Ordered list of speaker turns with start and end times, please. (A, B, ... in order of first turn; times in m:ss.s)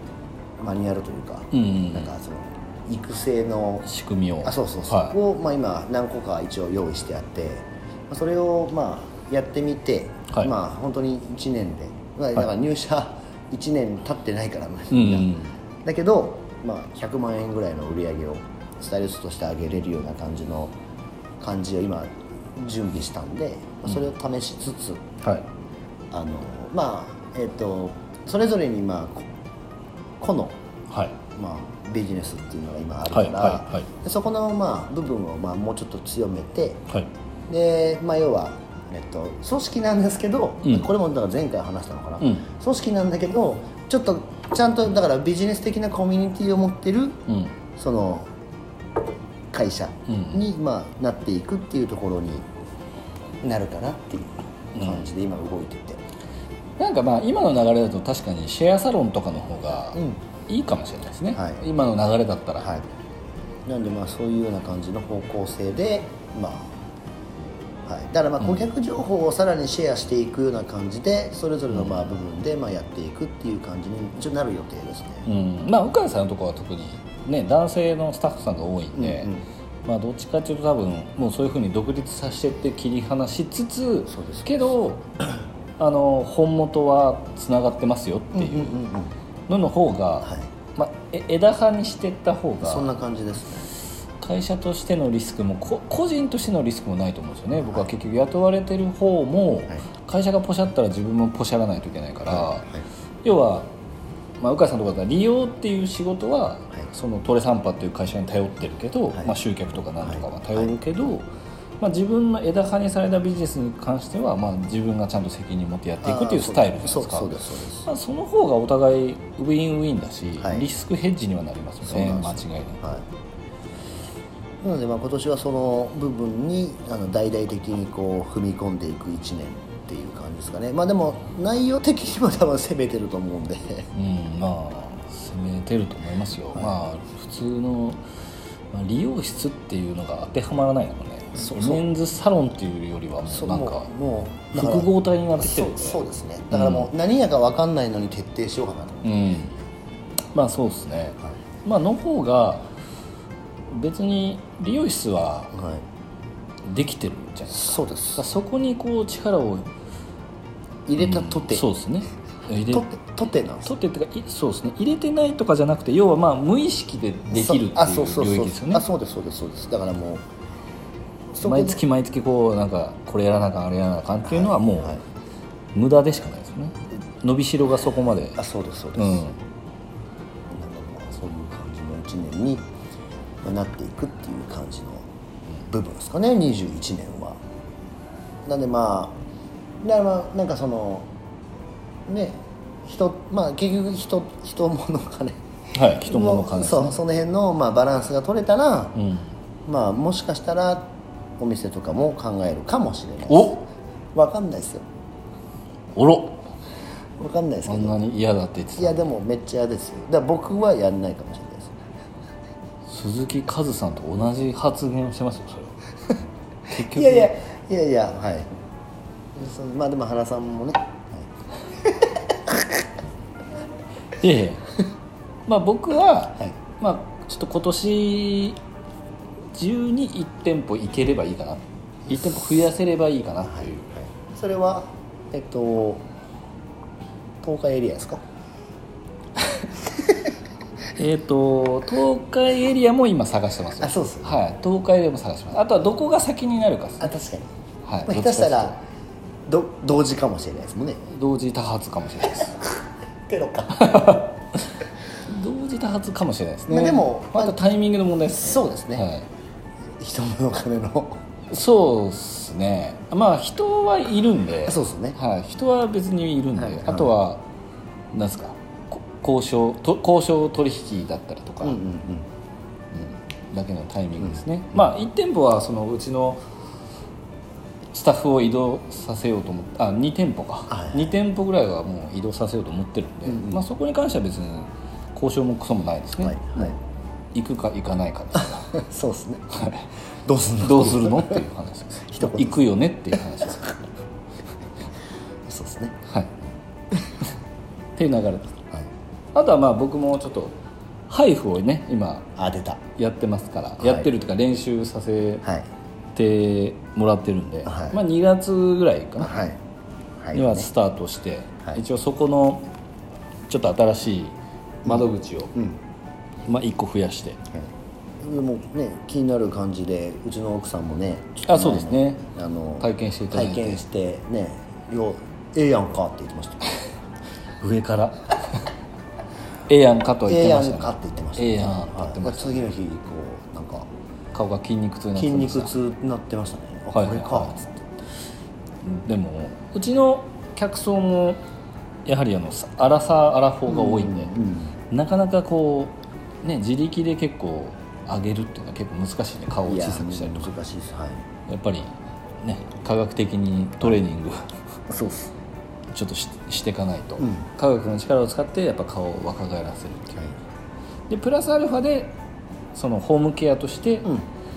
0:00.6-0:03.9 A
0:01.5-0:02.1 B
0:03.8-0:05.2 B
0:04.4-0:20.7 A
0:14.9-0:15.5 B
0:21.4-0:25.0 A
0:26.1-0:29.3 A
0:30.2-0:30.6 A
0:30.9-0:31.2 B
0:31.3-0:36.9 A
0:33.1-0:33.9 B
0:37.5-0:47.2 A
0:47.3-0:47.5 B
0:47.8-0:48.3 A
0:49.5-0:52.4 A
0:50.1-0:50.4 B
0:53.4-0:56.0 A
0:54.8-0:55.1 B
0:56.8-1:02.7 B
0:59.9-1:00.2 A
1:01.3-1:01.9 A
1:02.6-1:02.8 A
1:03.6-1:06.8 A
1:07.9-1:15.3 A
1:11.7-1:12.0 B
1:15.2-1:19.3 B
1:18.9-1:19.4 A
1:19.8-1:25.0 B
1:24.1-1:24.6 A
1:25.8-1:28.8 B
1:28.3-1:29.1 A
1:29.5-1:32.9 B
1:32.6-1:33.7 A
1:34.2-1:42.7 B
1:37.6-1:37.9 A
1:42.3-1:42.8 A
1:43.2-1:43.7 B
1:44.4-1:51.3 B
1:50.0-1:50.8 A
1:51.8-1:57.3 B
1:56.0-1:57.9 A
1:57.8-2:02.8 B
2:00.4-2:00.6 A
2:01.8-2:03.0 A
2:04.6-2:13.9 A
2:13.9-2:18.0 B
2:18.7-2:23.9 B
2:21.3-2:21.8 A
2:23.3-2:29.4 A
2:24.5-2:26.9 B
2:29.0-2:29.5 B
2:30.3-2:32.7 B
2:33.7-2:35.5 B
2:35.5-2:35.8 A
2:36.6-2:39.7 B
2:37.5-2:38.2 A
2:40.9-2:41.6 A
2:41.0-2:42.9 B
2:42.6-2:43.7 A
2:43.6-2:48.8 B
2:47.3-2:50.2 A
2:51.3-2:51.8 A
2:51.4-2:54.9 B
2:54.2-2:55.0 A
2:55.7-2:58.4 B
2:58.3-2:59.3 A
2:58.9-2:59.4 B
3:00.5-3:02.6 A
3:03.4-3:05.1 A
3:05.6-3:07.4 A
3:08.4-3:09.2 A
3:09.8-3:11.1 A
3:12.1-3:19.0 A
3:15.7-3:17.0 B
3:19.0-3:19.3 B
3:19.6-3:24.8 A
3:23.3-3:23.6 B
3:25.9-3:26.5 B
3:27.2-3:28.0 A
3:27.6-3:29.1 B
3:28.8-3:31.8 A
3:32.8-3:35.8 B
3:36.7-3:37.3 B
3:36.7-3:38.5 A
3:39.4-3:41.3 A
3:41.8-3:42.7 A
3:44.2-3:44.7 B
3:45.4-3:48.6 B
3:49.5-3:53.8 B
3:53.4-3:56.0 A
3:57.4-3:58.2 A
3:59.9-4:00.2 A
4:01.0-4:07.1 B
4:03.8-4:04.4 A
4:07.0-4:07.5 A
4:07.8-4:08.7 B
4:08.0-4:08.8 A
4:09.5-4:11.0 A
4:11.0-4:12.7 B
4:13.3-4:14.2 A
4:13.7-4:14.4 B
4:15.2-4:19.3 B
4:16.7-4:17.6 A
4:18.4-4:19.1 A
4:20.0-4:21.2 A
4:21.5-4:27.4 B
4:24.6-4:25.2 A
4:26.6-4:27.1 A
4:28.1-4:31.8 B
4:31.6-4:32.3 A
4:32.9-4:36.4 B
4:37.9-4:46.8 B
4:40.7-4:41.1 A
4:43.2-4:43.6 A
4:46.2-4:46.8 A
4:47.3-4:48.7 B
4:48.4-4:49.5 A
4:49.5-4:49.9 B
4:50.2-4:51.4 A
4:50.6-4:53.8 B
4:52.0-4:52.6 A
4:55.5-4:56.0 A
4:56.0-4:56.3 B
4:58.0-4:58.6 B
4:59.3-5:00.6 B
5:01.1-5:02.3 B
5:02.4-5:02.8 A
5:03.0-5:05.4 B
5:03.8-5:04.1 A
5:06.1-5:09.4 B
5:07.6-5:08.0 A
5:09.2-5:09.6 A
5:10.2-5:10.7 A
5:10.3-5:12.7 B
5:13.5-5:15.5 B
5:14.8-5:15.8 A
5:16.4-5:17.4 B
5:17.5-5:26.9 A
5:21.5-5:22.3 B
5:22.8-5:23.8 B
5:27.6-5:28.6 B
5:29.7-5:32.7 B
5:30.2-5:33.9 A
5:34.3-5:35.7 B
5:35.2-5:37.8 A
5:36.9-5:37.7 B
5:38.8-5:41.4 B
5:42.0-5:44.3 B
5:43.7-5:44.8 A
5:44.9-5:50.5 B
5:49.7-5:51.2 A
5:51.5-5:54.5 B
5:54.9-5:55.3 A
5:55.9-6:00.3 B
5:57.2-5:57.5 A
6:01.1-6:02.2 B
6:02.7-6:04.1 B